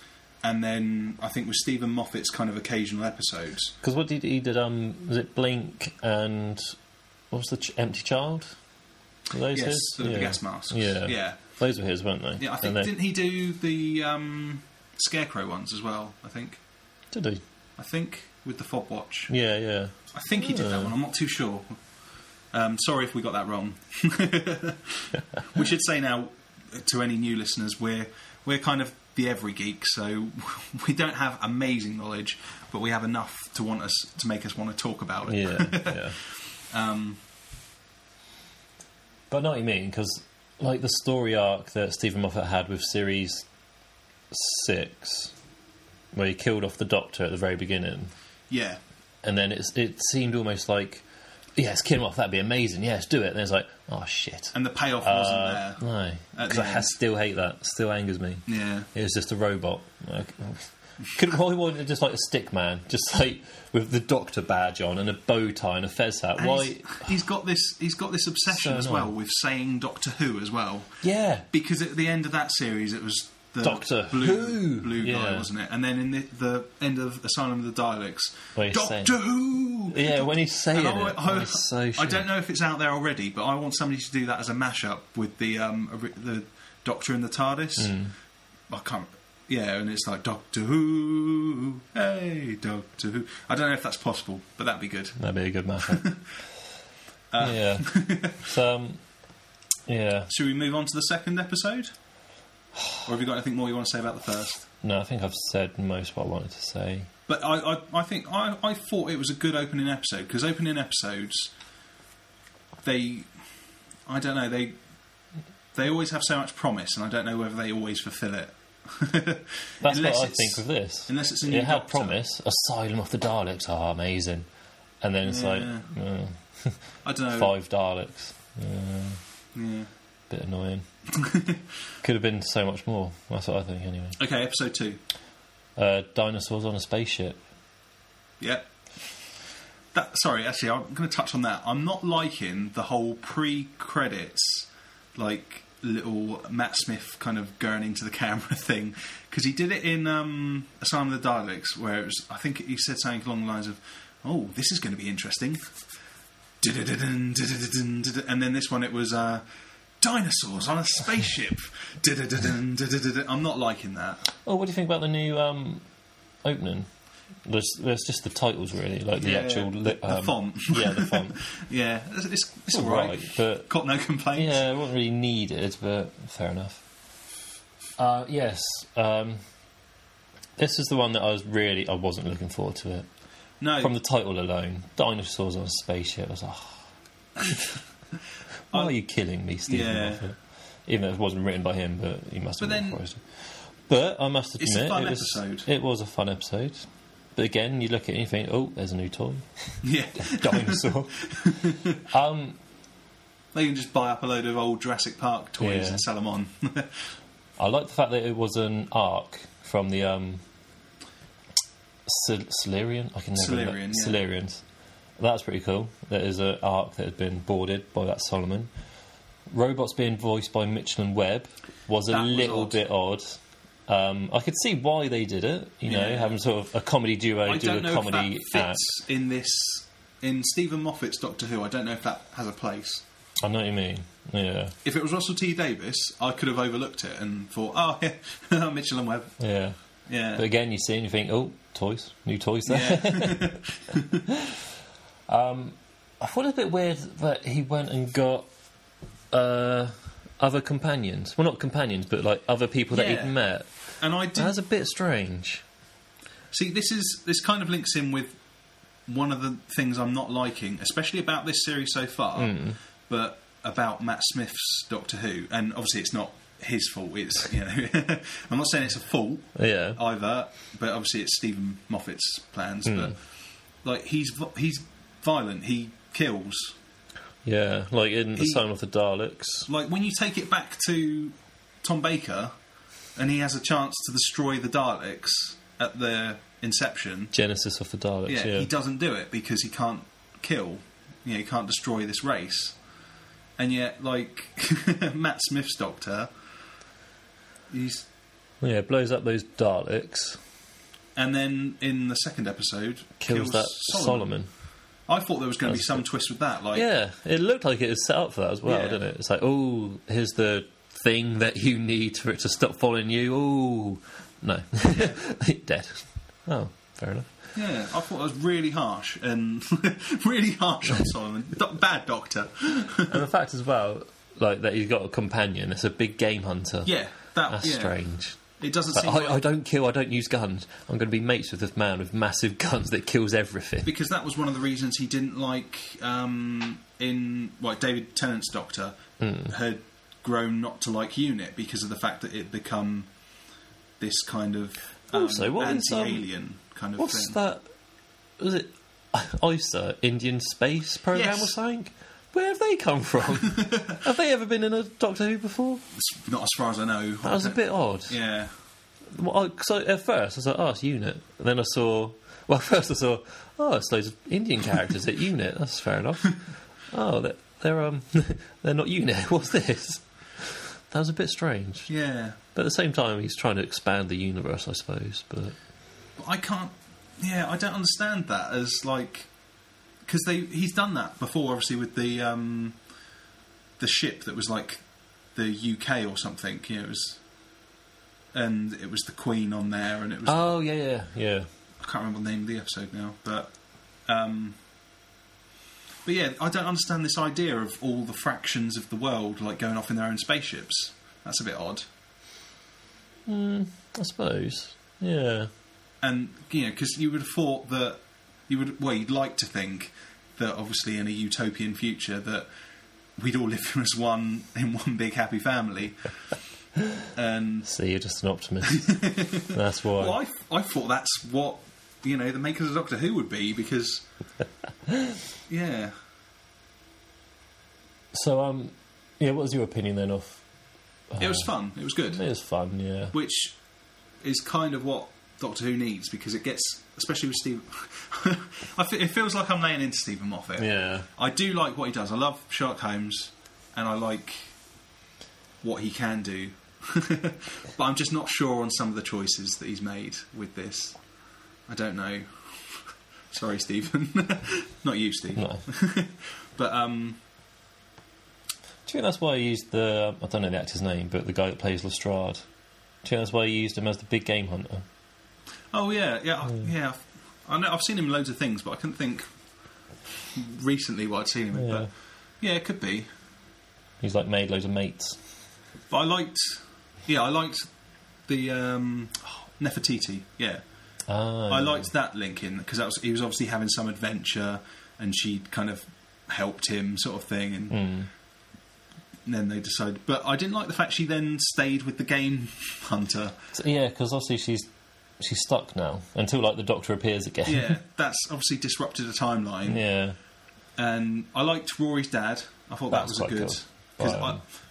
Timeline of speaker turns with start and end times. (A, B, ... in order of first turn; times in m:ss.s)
0:00.4-0:03.8 A
0:03.8-0:06.8 B
0:07.3-0:08.6 B
0:09.3-0:12.9 B
0:09.5-0:11.4 A
0:12.4-0:16.6 A
0:17.1-0:17.4 B
0:17.8-0:19.3 A
0:19.3-0:20.9 B
0:20.1-0:21.7 A
0:22.5-0:37.2 A
0:35.3-0:36.2 B
0:39.3-0:43.5 B
0:44.3-0:45.3 B
0:46.1-0:48.1 B
0:48.5-0:48.8 A
0:49.2-0:51.0 B
0:51.6-1:07.1 B
0:54.5-0:55.8 A
0:56.3-0:57.0 A
0:58.5-0:58.9 A
1:06.4-1:28.0 A
1:08.5-1:09.1 B
1:11.0-1:11.5 B
1:13.6-1:15.5 B
1:18.6-1:19.2 B
1:19.9-1:22.3 B
1:27.8-1:28.1 B
1:28.7-1:35.2 A
1:35.2-1:36.1 B
1:35.8-1:36.2 A
1:37.3-1:38.5 A
1:37.4-1:39.0 B
1:39.9-1:40.3 B
1:40.3-1:41.9 A
1:43.0-1:44.7 A
1:44.8-1:47.1 B
1:47.3-1:51.5 A
1:52.8-1:53.3 A
1:54.1-1:54.8 A
1:55.7-2:02.2 A
1:59.8-2:04.5 B
2:05.0-2:06.8 B
2:05.2-2:05.9 A
2:07.0-2:07.5 A
2:07.3-2:09.2 B
2:09.6-2:09.9 A
2:10.3-2:10.9 B
2:11.1-2:11.6 A
2:12.0-2:14.2 B
2:14.2-2:15.0 A
2:15.8-2:17.4 B
2:18.4-2:18.7 A
2:19.9-2:35.6 A
2:36.6-2:39.4 A
2:40.0-2:44.2 A
2:44.4-2:45.8 B
2:46.4-2:46.9 B
2:47.4-2:51.4 B
2:49.2-2:54.6 A
2:52.7-2:53.7 B
2:54.4-2:56.8 B
2:58.0-2:59.4 B
3:00.6-3:03.1 B
3:03.6-3:03.9 A
3:03.8-3:06.8 B
3:07.4-3:07.8 B
3:08.7-3:22.6 B
3:09.7-3:10.2 A
3:12.6-3:13.0 A
3:14.6-3:15.7 A
3:19.8-3:22.0 A
3:23.5-3:27.1 A
3:25.6-3:26.0 B
3:27.6-3:30.4 B
3:32.1-3:34.6 B
3:33.4-3:34.2 A
3:35.2-3:38.7 B
3:39.5-3:48.8 B
3:42.1-3:42.8 A
3:45.9-3:46.4 A
3:47.5-3:53.0 A
3:53.4-3:54.8 B
3:54.8-3:59.4 A
3:59.4-3:59.8 B
4:00.1-4:00.4 A
4:00.4-4:03.6 B
4:02.7-4:04.2 A
4:04.3-4:04.6 B
4:05.3-4:08.5 B
4:09.3-4:15.6 B
4:12.9-4:13.4 A
4:14.0-4:14.6 A
4:16.5-4:18.4 A
4:19.1-4:22.6 A
4:22.4-4:22.8 B
4:23.1-4:33.2 A
4:29.6-4:30.0 B
4:32.9-4:33.1 B
4:33.8-4:36.8 A
4:37.4-4:39.7 B
4:38.4-4:38.6 A
4:39.7-4:42.5 A
4:43.2-4:47.3 A
4:47.3-4:48.7 B
4:48.3-4:52.8 A
4:53.6-4:56.3 A
4:57.7-4:58.1 A
4:58.6-5:00.4 B
5:01.2-5:04.3 A
5:03.2-5:04.5 B
5:05.1-5:06.9 A
5:05.7-5:06.0 B
5:06.7-5:17.3 B
5:08.6-5:09.0 A
5:14.9-5:15.2 A
5:17.6-5:23.2 A
5:23.1-5:26.9 B
5:26.8-5:29.4 A
5:27.5-5:28.4 B
5:28.9-5:33.9 B
5:33.8-5:43.1 A
5:39.2-5:39.5 B
5:44.0-5:47.4 A
5:45.1-5:46.2 B
5:47.0-5:47.7 B
5:48.4-5:55.8 B
5:51.1-5:51.5 A
5:53.5-5:54.0 A
5:55.9-5:58.5 A
5:57.2-5:58.2 B
5:59.1-6:11.9 B
6:11.9-6:12.4 A
6:12.5-6:15.6 B
6:16.2-6:19.3 A
6:20.0-6:22.8 A
6:23.8-6:27.2 A
6:28.3-6:30.5 A
6:30.3-6:31.5 B
6:31.8-6:34.6 A
6:36.0-6:41.9 A
6:43.3-6:45.5 B
6:46.0-6:52.5 A
6:53.2-6:56.0 A
6:57.1-6:57.7 A
6:57.7-7:00.2 B
6:58.7-7:04.0 A
7:04.9-7:05.1 B
7:05.5-7:05.9 A
7:08.1-7:10.4 B
7:11.1-7:11.5 B
7:11.2-7:12.2 A
7:12.1-7:13.1 B
7:13.1-7:13.6 A
7:14.2-7:24.5 A
7:20.6-7:21.1 B
7:25.6-7:31.0 A
7:31.7-7:37.2 A
7:35.4-7:35.6 B
7:38.9-7:42.4 B
7:43.0-7:44.8 B
7:45.7-7:49.3 A
7:50.3-7:51.9 A
7:51.5-7:51.9 B
7:52.4-7:53.1 A
7:54.0-7:55.2 B
7:55.9-7:57.7 A
7:58.3-8:00.6 A
8:01.1-8:01.9 B
8:01.5-8:07.8 A
8:07.7-8:08.1 B
8:09.2-8:13.4 A
8:13.5-8:14.7 B
8:15.2-8:17.8 B
8:17.5-8:19.8 A
8:19.7-8:20.2 B
8:20.8-8:24.4 A
8:22.9-8:24.4 B